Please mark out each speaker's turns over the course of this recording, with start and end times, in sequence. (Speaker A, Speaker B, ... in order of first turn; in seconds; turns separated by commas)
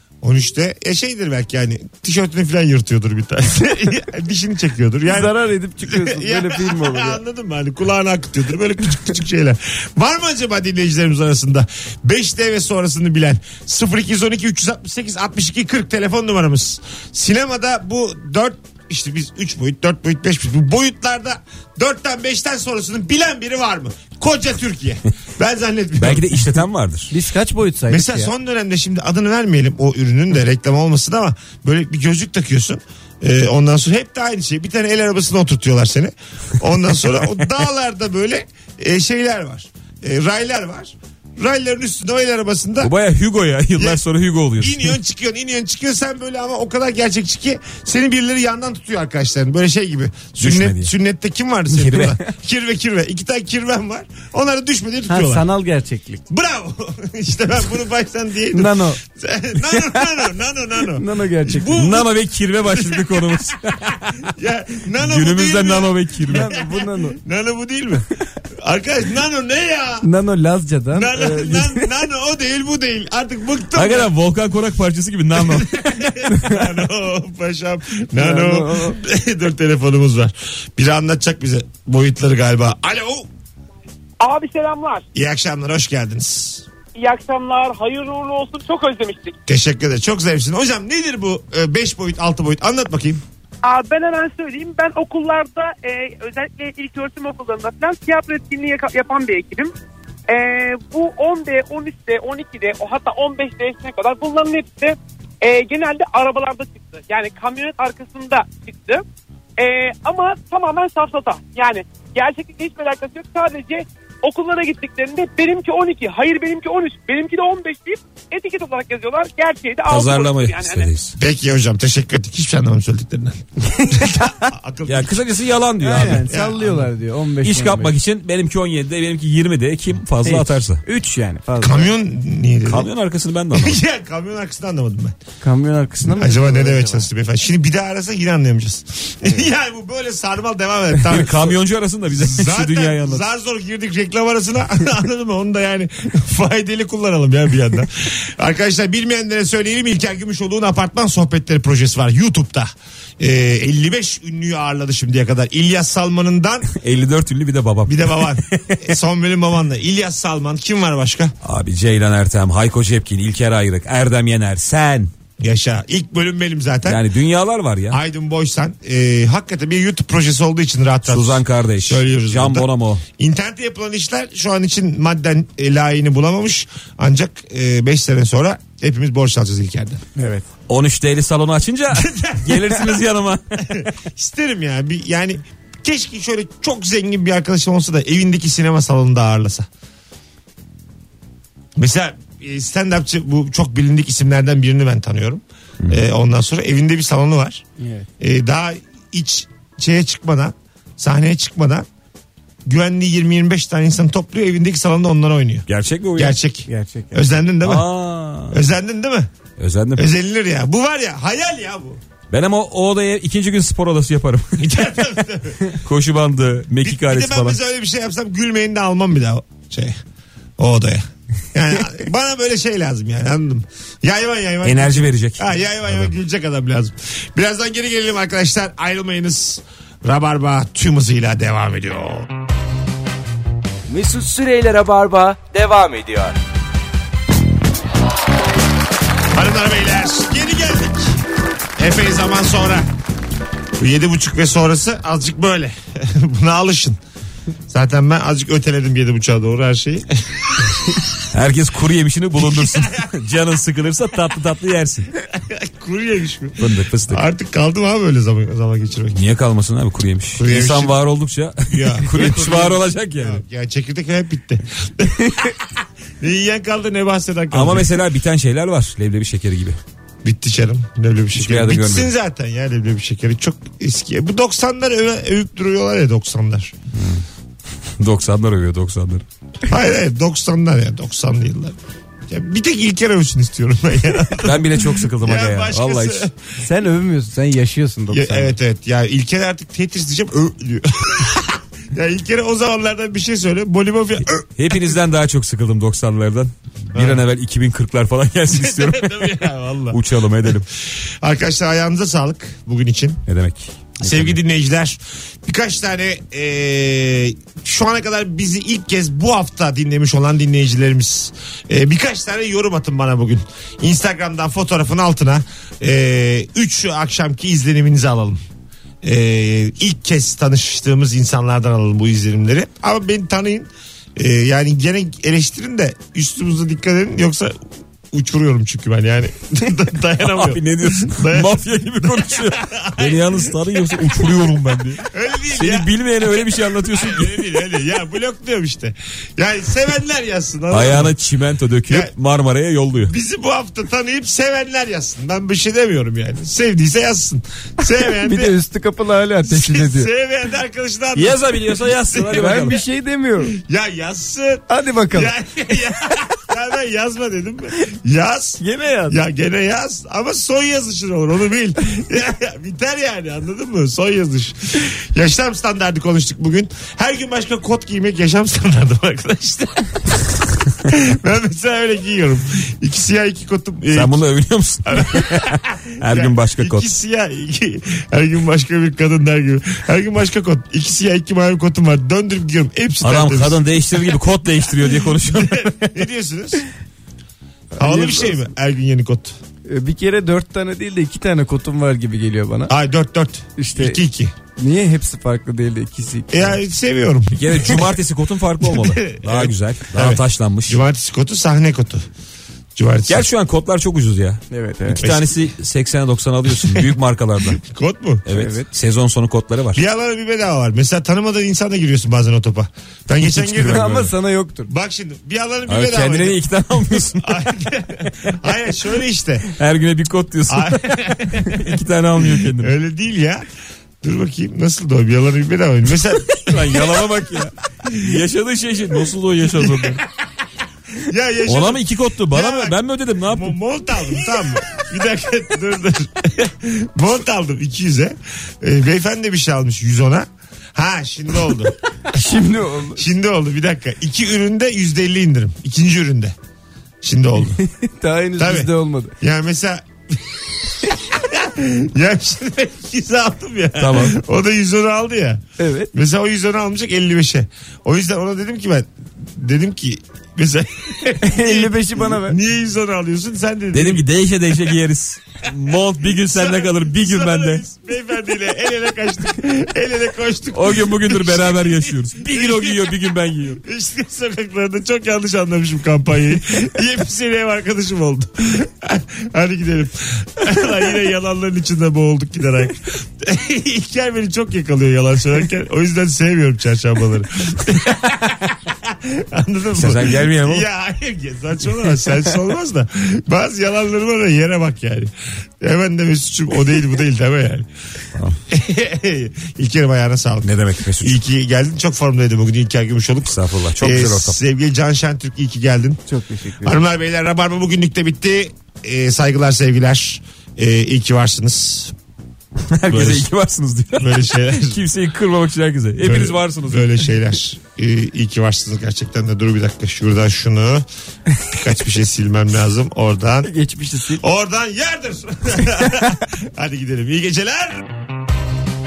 Speaker A: 0.2-26.5, Speaker B: 5.1-7.2, Speaker C: 26.0-27.1, Speaker B: 27.1-28.3, Speaker A: 27.9-42.9, Speaker C: 42.8-45.0, Speaker A: 44.6-55.5, Speaker C: 50.4-50.9, Speaker C: 51.7-52.1, Speaker B: 55.1-56.2, Speaker A: 56.3-63.5, Speaker B: 58.5-59.0, Speaker B: 59.7-60.0, Speaker B: 61.0-61.8, Speaker C: 61.8-64.2, Speaker A: 64.2-70.1, Speaker C: 65.0-66.5, Speaker B: 66.2-67.2, Speaker B: 70.0-71.9, Speaker A: 70.9-74.1, Speaker C: 73.7-76.3, Speaker A: 75.4-83.3, Speaker B: 78.2-79.0, Speaker D: 84.2-85.1, Speaker A: 85.1-86.7, Speaker D: 87.0-89.4, Speaker A: 89.5-93.2, Speaker D: 93.6-99.7, Speaker D: 100.3-109.0, Speaker D: 109.6-120.9, Speaker C: 119.9-121.2, Speaker A: 121.2-125.2, Speaker B: 123.8-124.3, Speaker C: 124.9-126.3, Speaker B: 125.8-127.9, Speaker A: 125.9-126.9, Speaker C: 127.4-130.8, Speaker B: 130.2-131.9, Speaker A: 131.6-132.9, Speaker C: 132.7-133.8, Speaker A: 133.5-135.2, Speaker B: 135.4-137.1, Speaker A: 136.0-141.6, Speaker C: 141.1-143.2, Speaker A: 142.1-156.7, Speaker C: 156.7-158.9, Speaker A: 157.9-161.3, Speaker C: 161.4-165.1, Speaker A: 165.4-167.0, Speaker C: 166.9-168.0, Speaker A: 167.9-180.0, Speaker C: 171.1-173.0, Speaker B: 180.2-180.4, Speaker C: 180.7-183.7, Speaker A: 181.9-183.0, Speaker A: 183.7-189.7, Speaker A: 191.8-197.7, Speaker B: 197.8-198.1, Speaker A: 198.2-201.9, Speaker A: 202.7-205.7, Speaker C: 205.7-206.4, Speaker A: 206.2-207.9, Speaker B: 206.7-207.2, Speaker C: 207.6-208.6, Speaker A: 208.5-209.3, Speaker C: 209.6-210.1, Speaker A: 210.0-212.0, Speaker C: 212.3-214.7, Speaker A: 214.6-215.7, Speaker C: 215.8-217.6, Speaker A: 216.8-220.0, Speaker A: 220.6-232.3, Speaker C: 224.6-226.1, Speaker E: 233.9-236.4, Speaker A: 239.3-241.2, Speaker A: 241.8-242.9, Speaker A: 243.8-247.0, Speaker A: 247.7-250.7, Speaker C: 251.3-255.1, Speaker A: 252.6-252.9, Speaker A: 255.3-259.2, Speaker C: 256.6-257.2, Speaker C: 259.1-263.4, Speaker A: 260.4-261.0, Speaker A: 261.7-265.6, Speaker A: 266.2-268.0, Speaker C: 267.5-269.8, Speaker A: 270.2-276.7, Speaker C: 271.4-272.1, Speaker C: 276.9-277.2, Speaker C: 278.0-279.2, Speaker A: 279.7-281.8, Speaker A: 282.3-286.4, Speaker C: 284.4-286.2, Speaker B: 286.6-288.5, Speaker A: 288.1-294.4, Speaker C: 294.6-300.7, Speaker A: 296.9-297.2, Speaker A: 298.5-300.0, Speaker A: 300.8-303.2, Speaker C: 303.3-304.3, Speaker A: 304.0-318.4, Speaker A: 319.0-327.5, Speaker A: 328.1-334.5, Speaker C: 330.2-337.6, Speaker A: 335.0-341.1, Speaker C: 340.7-343.1, Speaker A: 341.9-342.1, Speaker A: 343.0-348.6, Speaker B: 348.0-350.1, Speaker A: 349.4-352.4, Speaker C: 351.1-352.8, Speaker B: 352.3-353.6, Speaker A: 353.5-370.0, Speaker B: 354.7-355.4, Speaker B: 358.6-359.2, Speaker A: 370.9-374.2, Speaker C: 373.9-376.9, Speaker A: 374.9-384.1, Speaker C: 383.0-385.8, Speaker A: 384.9-386.7, Speaker B: 387.8-388.4, Speaker A: 387.8-389.4, Speaker B: 389.7-392.7, Speaker A: 392.7-394.3, Speaker B: 393.6-394.0, Speaker B: 394.6-396.6, Speaker A: 396.3-397.9, Speaker C: 397.3-400.8, Speaker A: 398.7-402.1, Speaker A: 402.8-403.3, Speaker C: 403.1-407.6, Speaker B: 404.5-405.0, Speaker A: 405.0-405.4, Speaker A: 406.5-406.9, Speaker A: 407.5-408.2, Speaker C: 408.3-409.8, Speaker B: 408.3-408.7, Speaker A: 409.8-414.0, Speaker C: 413.2-414.1, Speaker B: 413.6-414.7, Speaker A: 414.7-416.4, Speaker C: 415.7-417.4, Speaker A: 417.1-419.6, Speaker C: 419.5-422.7, Speaker A: 420.5-421.7, Speaker A: 422.2-423.4, Speaker A: 424.0-428.2, Speaker C: 426.3-430.0, Speaker A: 429.5-430.1, Speaker A: 431.0-441.8, Speaker C: 431.5-433.6, Speaker B: 442.1-443.0, Speaker A: 442.9-446.4, Speaker A: 447.0-447.6, Speaker B: 447.6-449.1, Speaker A: 448.4-448.7, Speaker A: 449.2-455.4, Speaker C: 453.8-454.2, Speaker B: 455.6-455.9, Speaker A: 455.9-464.1, Speaker B: 461.2-462.4, Speaker C: 463.7-467.6, Speaker A: 466.1-497.7, Speaker C: 470.5-473.6, Speaker C: 489.7-490.7, Speaker A: 498.5-506.0, Speaker C: 500.4-501.2, Speaker C: 503.3-504.4, Speaker B: 506.1-506.8, Speaker A: 506.6-511.9, Speaker C: 512.7-517.0, Speaker A: 512.9-513.3, Speaker A: 514.0-514.8, Speaker A: 516.0-520.9, Speaker A: 521.4-523.5, Speaker B: 523.4-524.2, Speaker A: 524.2-527.9